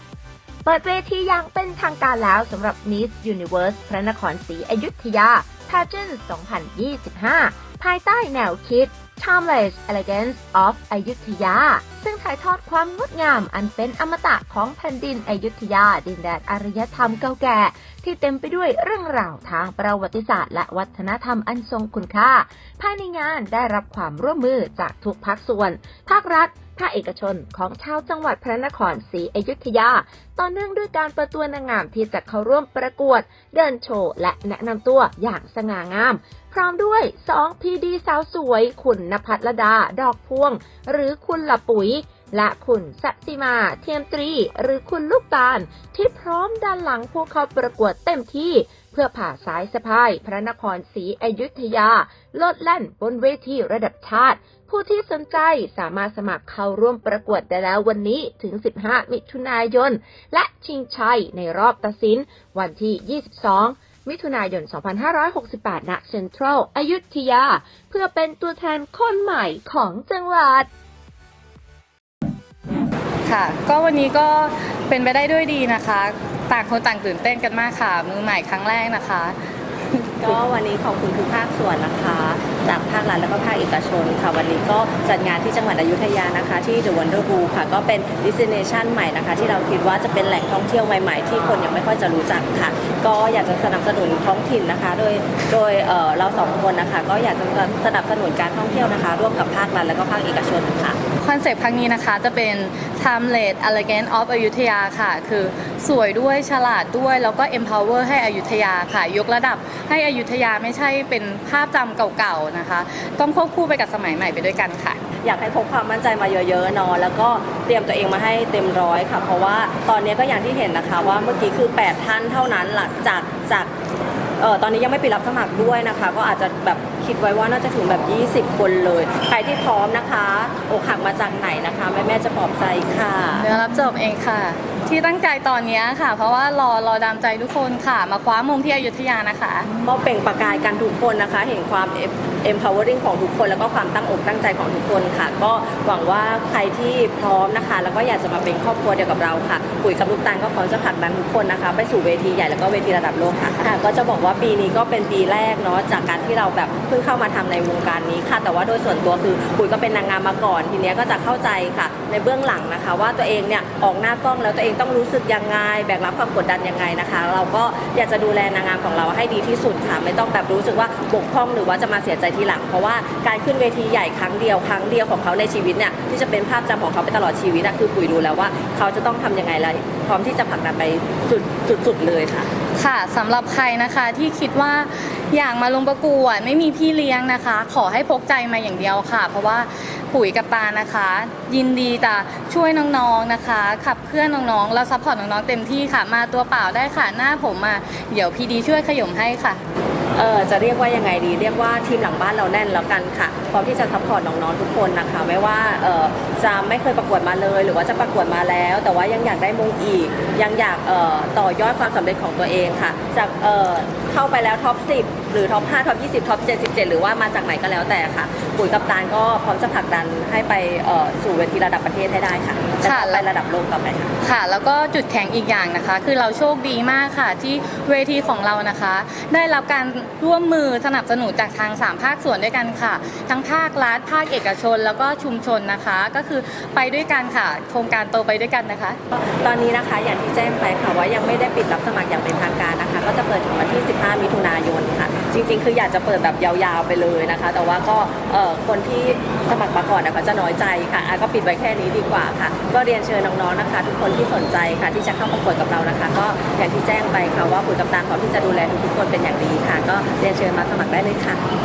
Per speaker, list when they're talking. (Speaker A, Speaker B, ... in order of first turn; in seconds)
Speaker A: 0.6-70.7
Speaker B: 73.2-79.4, 79.9-80.3, 101.2-115.0, 133.4-139.7, 182.7-199.6, 222.8-223.2, 224.2-239.0
Speaker C: 80.2-101.0, 115.2-123.7, 124.4-133.5, 139.8-182.5, 200.1-224.1, 239.1-261.4